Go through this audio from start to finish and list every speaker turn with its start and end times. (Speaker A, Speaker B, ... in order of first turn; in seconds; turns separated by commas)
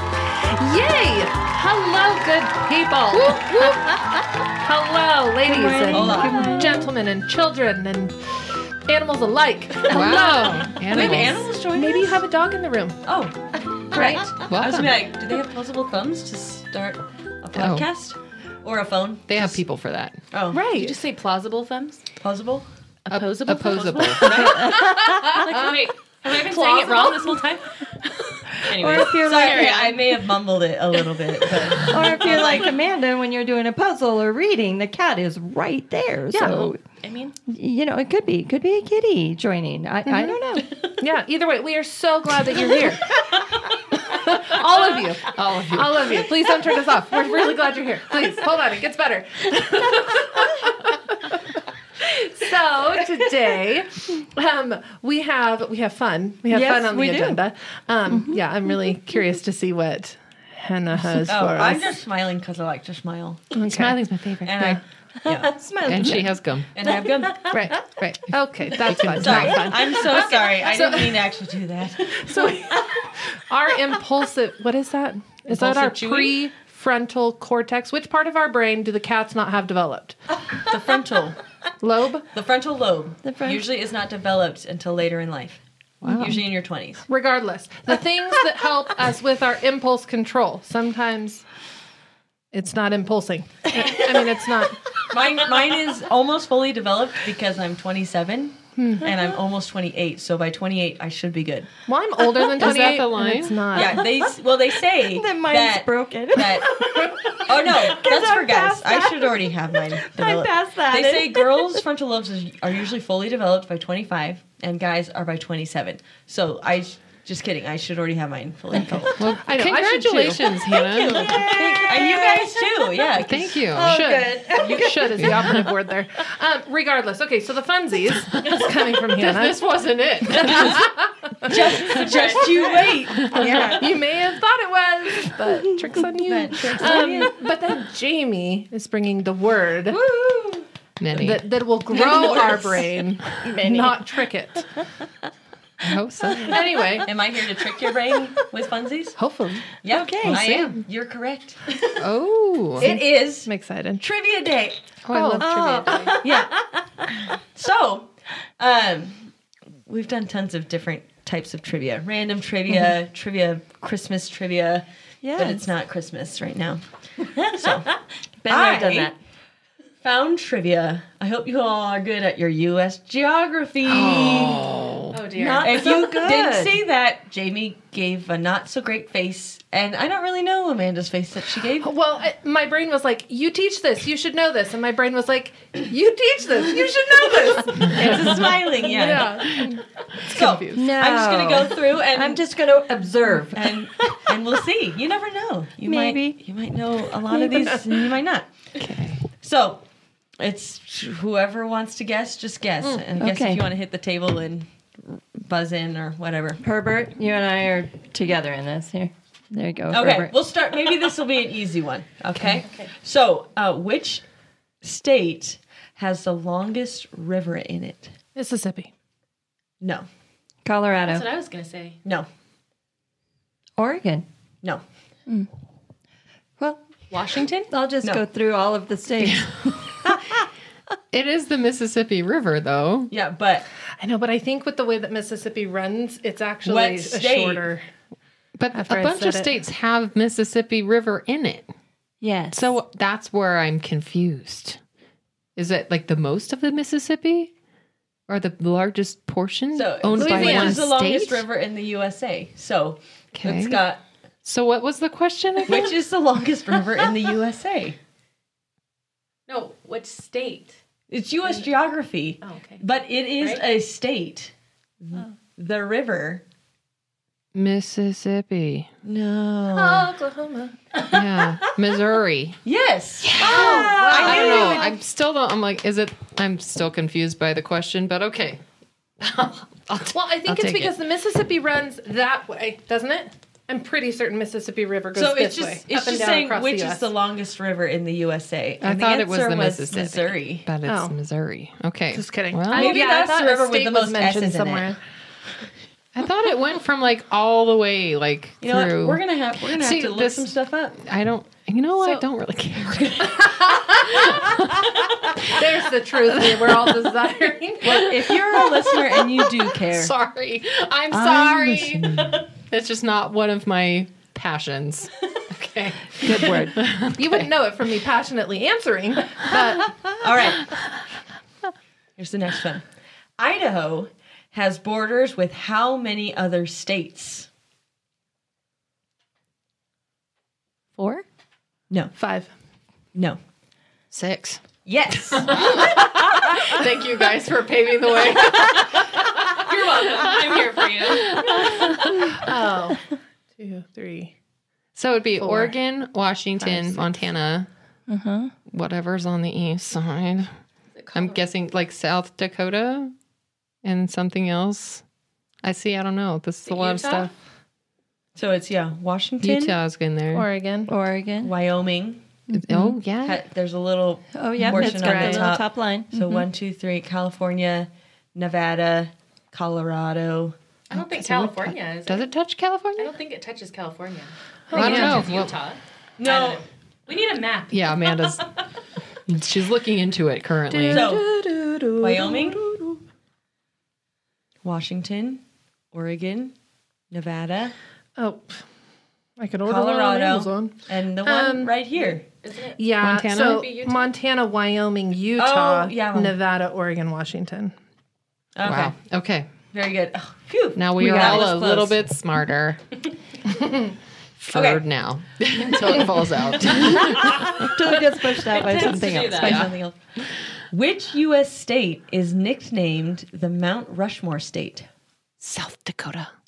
Speaker A: 0.5-13.0, Speaker B: 5.5-6.8, Speaker C: 5.8-6.7, Speaker D: 6.2-6.6, Speaker E: 9.9-11.5, Speaker C: 10.7-12.2, Speaker C: 13.0-19.6, Speaker A: 13.9-14.2, Speaker B: 13.9-14.3, Speaker E: 14.5-15.0, Speaker E: 17.5-17.9, Speaker E: 19.3-20.2, Speaker C: 20.3-20.6, Speaker A: 20.5-21.0, Speaker D: 20.7-22.1, Speaker C: 22.2-22.7, Speaker D: 23.1-27.9, Speaker E: 23.1-24.3, Speaker C: 24.1-24.8, Speaker B: 24.4-25.0, Speaker E: 25.5-25.9, Speaker A: 26.3-27.4, Speaker C: 28.6-32.5, Speaker B: 28.7-29.9, Speaker D: 28.9-30.1, Speaker D: 31.9-32.7, Speaker B: 31.9-36.8, Speaker A: 36.3-36.7, Speaker D: 36.5-37.3, Speaker B: 37.5-40.7, Speaker A: 40.1-40.4, Speaker A: 41.0-43.3, Speaker A: 43.9-51.4, Speaker E: 45.3-46.2, Speaker A: 52.0-61.9, Speaker B: 56.5-57.4, Speaker C: 61.3-63.6, Speaker A: 63.5-64.0, Speaker E: 63.6-64.8, Speaker C: 64.4-66.2, Speaker B: 65.2-67.7, Speaker E: 65.8-66.7, Speaker C: 66.7-67.5, Speaker A: 67.5-71.3, Speaker E: 68.0-69.6, Speaker C: 69.0-72.6, Speaker A: 72.1-80.2, Speaker C: 75.5-76.4, Speaker C: 80.6-81.4, Speaker A: 81.8-82.3, Speaker C: 82.3-87.1, Speaker B: 83.2-83.6, Speaker E: 86.0-86.4, Speaker A: 87.1-91.5, Speaker A: 92.5-95.0, Speaker C: 95.0-101.7, Speaker A: 98.8-99.1, Speaker A: 101.9-104.1, Speaker E: 102.6-103.7, Speaker C: 103.7-119.3, Speaker B: 105.1-111.8, Speaker E: 119.2-121.4, Speaker A: 119.4-121.5, Speaker B: 120.9-123.0, Speaker C: 121.2-123.7, Speaker E: 123.2-124.0, Speaker B: 123.7-125.3, Speaker A: 123.8-129.6, Speaker E: 124.7-125.7, Speaker E: 128.5-130.9, Speaker A: 130.2-140.0, Speaker C: 130.5-130.7, Speaker C: 131.5-133.8, Speaker E: 133.2-133.5, Speaker B: 133.4-133.9, Speaker B: 135.5-135.9, Speaker C: 136.2-137.5, Speaker B: 139.9-140.7, Speaker E: 141.0-141.5, Speaker A: 141.1-144.8, Speaker B: 141.9-144.2, Speaker E: 145.8-146.9, Speaker B: 146.5-147.0, Speaker A: 146.5-147.1, Speaker C: 147.1-149.2, Speaker A: 149.2-149.7, Speaker C: 149.8-151.7, Speaker B: 149.9-150.5, Speaker E: 150.2-150.8, Speaker E: 152.0-152.9, Speaker A: 152.8-154.0, Speaker C: 152.8-153.5, Speaker C: 154.0-155.0, Speaker E: 155.0-156.1, Speaker A: 155.1-156.1, Speaker B: 155.4-156.5, Speaker C: 156.2-159.3, Speaker C: 159.9-169.1, Speaker B: 165.2-165.6, Speaker B: 168.4-169.2, Speaker C: 170.0-174.7, Speaker E: 173.8-175.2, Speaker D: 175.1-175.9, Speaker C: 175.4-181.9, Speaker B: 175.6-176.8, Speaker A: 181.8-190.8, Speaker C: 187.7-192.5, Speaker E: 187.9-188.3, Speaker B: 190.7-194.2, Speaker C: 193.5-198.8, Speaker B: 195.8-196.4, Speaker B: 197.3-197.8, Speaker E: 198.8-199.2, Speaker C: 199.4-199.8, Speaker C: 200.4-206.6, Speaker B: 203.2-203.6, Speaker B: 206.6-210.3, Speaker C: 209.9-214.3, Speaker C: 214.8-218.2, Speaker A: 218.4-218.9, Speaker C: 219.8-220.1, Speaker B: 220.7-221.2, Speaker D: 221.1-222.0, Speaker B: 223.8-224.2, Speaker B: 226.6-226.9, Speaker D: 227.1-227.7, Speaker B: 227.7-230.3, Speaker E: 229.2-230.0, Speaker E: 231.1-233.1, Speaker C: 233.1-233.7, Speaker A: 234.0-237.8, Speaker C: 236.7-237.6, Speaker E: 238.6-241.7, Speaker A: 238.8-239.5, Speaker B: 242.2-242.8, Speaker E: 242.5-244.8, Speaker E: 245.6-247.5, Speaker E: 248.3-251.4, Speaker C: 249.7-254.0, Speaker A: 250.2-250.9, Speaker E: 253.3-253.8, Speaker E: 254.4-256.0, Speaker C: 255.7-258.0, Speaker D: 259.5-260.8, Speaker C: 261.1-266.4, Speaker D: 262.4-262.8, Speaker E: 267.5-268.9, Speaker C: 269.0-270.1, Speaker A: 269.7-270.8, Speaker E: 271.1-272.6, Speaker C: 272.6-275.0, Speaker E: 273.2-278.6, Speaker A: 273.4-274.8, Speaker E: 279.2-280.9, Speaker A: 280.1-287.1, Speaker C: 285.1-290.7, Speaker E: 288.8-293.0, Speaker A: 290.9-291.1, Speaker A: 292.1-295.0, Speaker C: 292.7-294.9, Speaker E: 296.1-305.6, Speaker C: 298.6-301.1, Speaker A: 303.2-304.4, Speaker A: 305.4-308.1, Speaker E: 306.3-307.1, Speaker C: 307.8-310.1, Speaker E: 307.9-308.8, Speaker E: 309.4-317.5, Speaker C: 311.1-312.4, Speaker B: 316.2-316.8, Speaker A: 316.3-320.1, Speaker C: 320.1-320.8, Speaker C: 322.2-322.9, Speaker C: 323.4-327.5, Speaker D: 330.9-331.2, Speaker C: 331.9-332.2, Speaker A: 332.2-332.5, Speaker E: 334.1-339.2, Speaker C: 334.9-336.7, Speaker D: 339.6-342.0, Speaker E: 340.2-341.9, Speaker A: 342.3-344.4, Speaker E: 344.9-347.7, Speaker A: 345.4-345.8, Speaker A: 346.6-347.1, Speaker B: 348.1-348.5, Speaker E: 348.7-350.6, Speaker D: 351.0-351.4, Speaker E: 351.1-353.1, Speaker E: 353.8-355.1, Speaker E: 355.6-357.3, Speaker D: 356.7-357.3, Speaker C: 358.4-359.8, Speaker E: 359.4-360.5, Speaker A: 360.3-360.9, Speaker B: 360.9-361.5, Speaker C: 361.4-362.2, Speaker B: 362.5-362.9, Speaker E: 362.5-363.4, Speaker C: 363.2-370.6, Speaker B: 364.4-366.5, Speaker A: 364.7-365.5, Speaker D: 370.9-372.3, Speaker E: 370.9-373.1, Speaker D: 373.0-378.6, Speaker A: 374.7-375.3, Speaker E: 374.7-375.6, Speaker C: 376.2-376.6, Speaker E: 377.7-378.6, Speaker E: 379.3-381.1, Speaker A: 380.7-383.0, Speaker C: 380.9-381.3, Speaker C: 382.0-382.7, Speaker C: 384.6-386.5, Speaker C: 387.1-387.8, Speaker A: 388.2-388.6, Speaker A: 389.4-392.2, Speaker C: 389.7-392.2, Speaker D: 392.4-392.9, Speaker A: 392.8-397.7, Speaker E: 393.0-393.7, Speaker D: 393.4-394.1, Speaker C: 395.4-396.4, Speaker C: 398.6-399.0, Speaker E: 398.6-399.5, Speaker C: 399.7-402.0, Speaker E: 400.8-402.8, Speaker E: 404.4-407.6, Speaker C: 404.5-404.8, Speaker B: 407.1-409.7, Speaker D: 408.5-409.6, Speaker C: 408.5-414.9, Speaker E: 409.4-409.7, Speaker E: 415.4-416.3